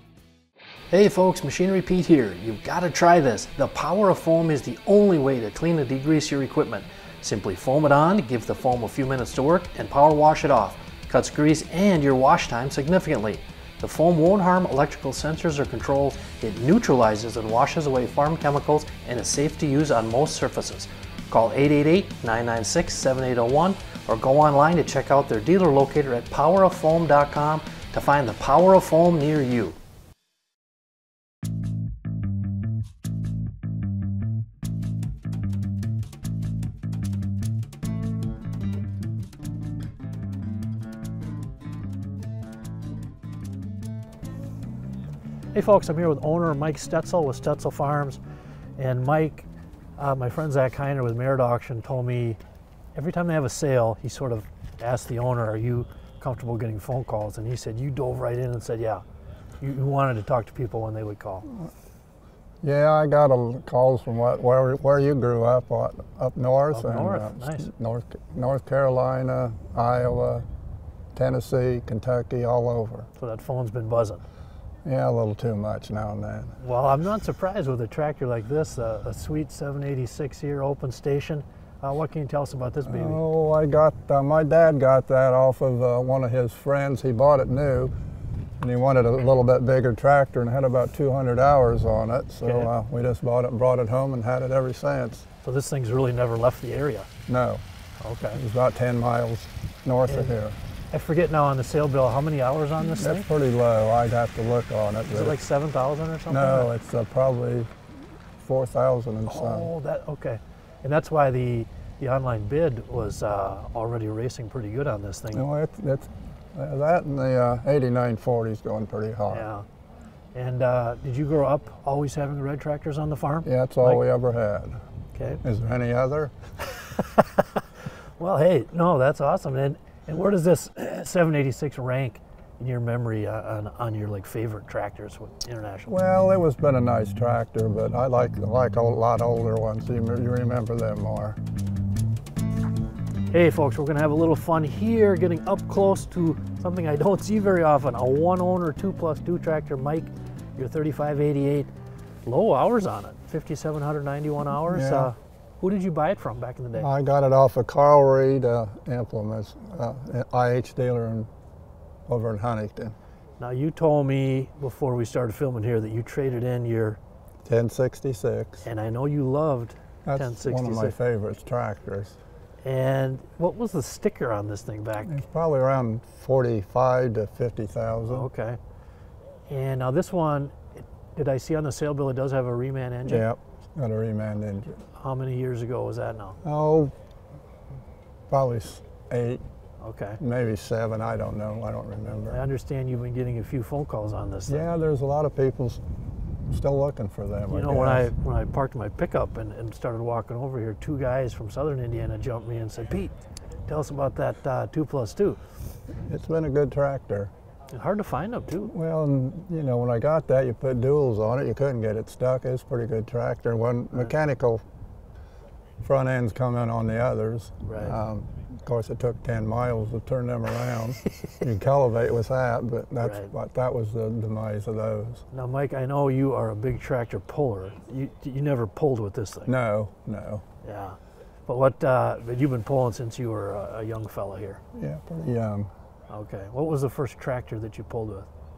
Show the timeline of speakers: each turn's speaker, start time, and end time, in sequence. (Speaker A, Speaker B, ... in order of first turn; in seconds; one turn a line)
Speaker A: 0.9-29.8
Speaker A: 45.5-48.2
Speaker A: 48.8-52.4
Speaker A: 53.0-59.0
Speaker A: 59.6-61.5
Speaker B: 62.6-70.5
Speaker A: 66.7-67.7
Speaker B: 71.2-73.1
Speaker A: 73.2-74.2
Speaker B: 74.8-76.6
Speaker A: 76.6-83.2
Speaker B: 82.9-87.9
Speaker B: 88.6-95.3
Speaker A: 92.4-92.7
Speaker A: 95.4-97.1
Speaker B: 97.3-97.6
Speaker A: 98.0-98.4
Speaker B: 98.3-100.6
Speaker A: 100.1-100.3
Speaker A: 100.9-103.3
Speaker B: 102.8-105.4
Speaker A: 105.1-106.7
Speaker B: 106.3-107.7
Speaker B: 108.4-109.7
Speaker A: 109.3-115.5
Speaker B: 115.3-119.5
Speaker A: 119.3-119.7
Speaker A: 120.3-124.0
Speaker B: 123.4-124.8
Speaker A: 125.2-125.4
Speaker B: 125.4-126.3
Speaker A: 128.2-136.0
Speaker B: 135.9-141.4
Speaker A: 143.3-151.7
Speaker A: 152.2-156.9
Speaker B: 154.7-155.1
Speaker B: 156.8-161.3
Speaker B: 162.1-163.0
Speaker A: 163.4-167.0
Speaker B: 167.4-168.7
Speaker A: 168.7-171.0
Speaker B: 170.1-172.2
Speaker A: 172.6-175.2
Speaker B: 175.0-178.3
Speaker A: 178.1-178.6
Speaker A: 179.5-183.3
Speaker B: 183.1-184.8
Speaker A: 185.0-186.4
Speaker B: 186.4-186.9
Speaker B: 188.3-189.4
Speaker A: 189.8-190.2
Speaker B: 190.2-192.4
Speaker A: 192.3-194.7
Speaker B: 194.5-195.8
Speaker B: 196.5-198.1
Speaker A: 197.5-203.2
Speaker A: 203.7-205.4
Speaker B: 206.0-207.3
Speaker A: 207.7-208.7
Speaker B: 208.7-214.6
Speaker B: 215.8-225.2
Speaker A: 217.7-217.9
Speaker A: 223.0-223.3
Speaker A: 225.3-229.5
Speaker B: 229.5-230.4
Speaker A: 230.6-234.6
Speaker B: 234.7-235.7
Speaker A: 236.1-238.3